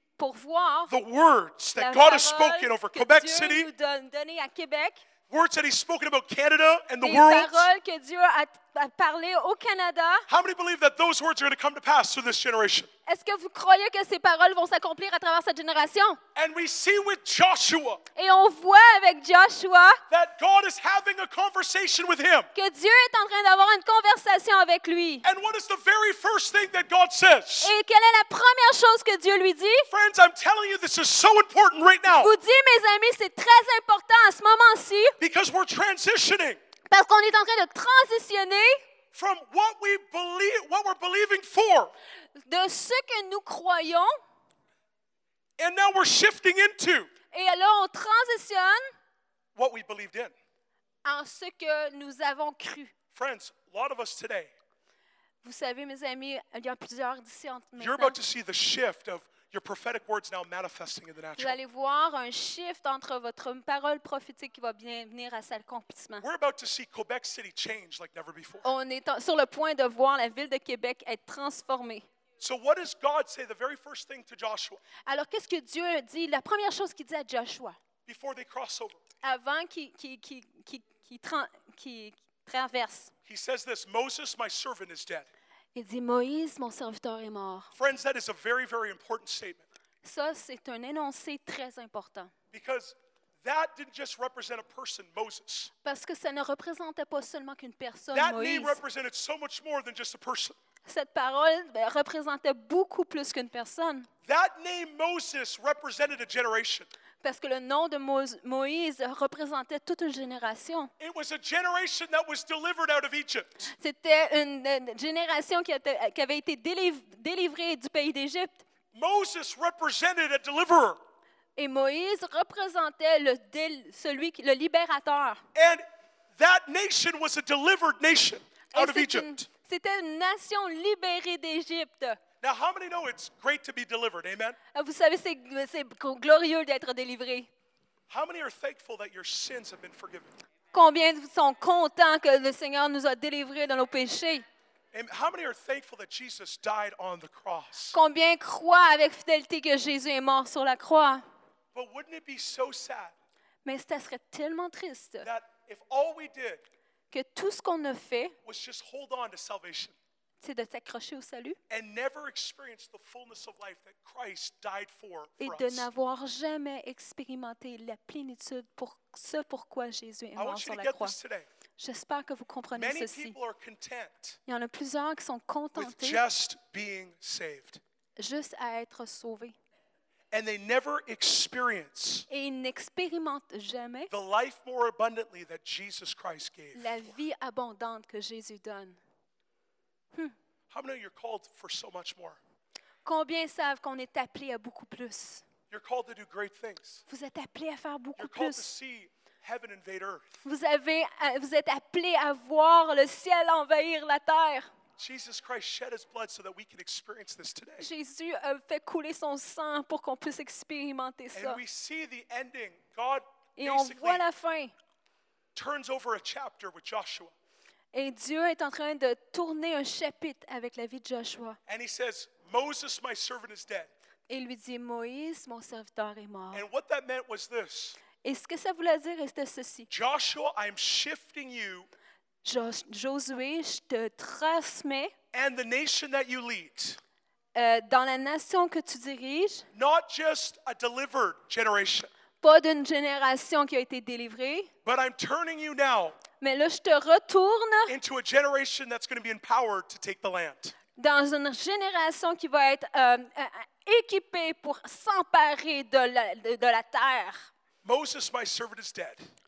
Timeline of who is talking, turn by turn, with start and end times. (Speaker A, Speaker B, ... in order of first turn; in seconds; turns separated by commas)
Speaker A: 0.2-0.9, Speaker B: 0.9-3.7, Speaker A: 1.8-5.0, Speaker B: 5.3-7.7, Speaker A: 7.0-10.2, Speaker B: 10.3-12.9, Speaker A: 13.1-16.2, Speaker B: 16.3-18.0, Speaker A: 18.1-20.0, Speaker B: 20.1-22.5, Speaker A: 22.5-25.2, Speaker B: 25.2-27.7, Speaker A: 27.6-29.9, Speaker B: 29.9-32.3, Speaker A: 32.0-35.2, Speaker B: 35.2-36.6, Speaker A: 36.9-38.8, Speaker B: 39.1-41.9, Speaker A: 42.4-44.2, Speaker B: 45.6-47.1, Speaker A: 47.3-48.9, Speaker B: 49.5-50.3, Speaker A: 51.0-52.9, Speaker B: 53.1-54.5, Speaker A: 55.4-58.2, Speaker B: 57.8-61.5, Speaker A: 61.4-66.2, Speaker B: 66.2-68.7, Speaker A: 68.6-72.0, Speaker B: 72.4-74.8, Speaker A: 75.0-77.8, Speaker B: 78.0-79.0, Speaker A: 79.2-83.1, Speaker B: 83.3-85.3, Speaker A: 85.7-87.7, Speaker B: 87.8-89.7, Speaker A: 90.0-92.3, Speaker B: 92.5-95.7, Speaker A: 95.8-98.8, Speaker B: 98.1-100.5, Speaker A: 100.8-104.1, Speaker B: 104.2-106.9, Speaker A: 107.2-110.9, Speaker B: 111.0-113.7, Speaker A: 113.8-118.6, Speaker B: 118.9-121.0, Speaker A: 121.6-125.4, Speaker B: 125.5-125.8, Speaker B: 126.3-129.4, Speaker A: 128.7-132.2, Speaker B: 132.4-134.6, Speaker A: 134.7-137.5, Speaker B: 138.1-140.3, Speaker A: 140.7-144.4, Speaker B: 144.9-148.0, Speaker A: 147.9-151.2, Speaker B: 151.7-153.1, Speaker A: 153.6-155.3, Speaker B: 155.2-156.6, Speaker A: 157.1-158.3, Speaker B: 158.4-159.9, Speaker A: 160.4-161.6, Speaker B: 161.7-165.8, Speaker A: 165.4-171.1, Speaker B: 170.3-171.5, Speaker A: 171.8-173.3, Speaker B: 172.7-174.4, Speaker A: 174.5-176.2, Speaker B: 175.7-177.8, Speaker A: 178.2-179.6, Speaker B: 180.3-182.2, Speaker A: 182.3-184.1, Speaker B: 184.1-187.0, Speaker A: 186.8-189.0, Speaker B: 190.7-192.4, Speaker A: 193.0-195.4, Speaker B: 195.7-197.0, Speaker A: 197.1-198.7, Speaker B: 198.2-200.3, Speaker A: 200.4-204.7, Speaker B: 205.0-207.9, Speaker A: 207.8-211.6, Speaker B: 211.3-214.2, Speaker A: 213.6-214.7, Speaker B: 215.5-217.3, Speaker A: 217.9-221.6, Speaker B: 221.7-223.9, Speaker A: 224.3-226.6, Speaker B: 226.5-228.0, Speaker A: 228.2-229.9, Speaker B: 229.9-231.9, Speaker A: 232.4-235.1, Speaker B: 235.3-237.0, Speaker A: 237.5-239.6, Speaker B: 239.7-242.1, Speaker A: 242.4-244.7, Speaker B: 244.8-246.2, Speaker A: 246.4-247.9, Speaker B: 247.9-250.7, Speaker A: 251.0-257.5, Speaker B: 257.8-259.3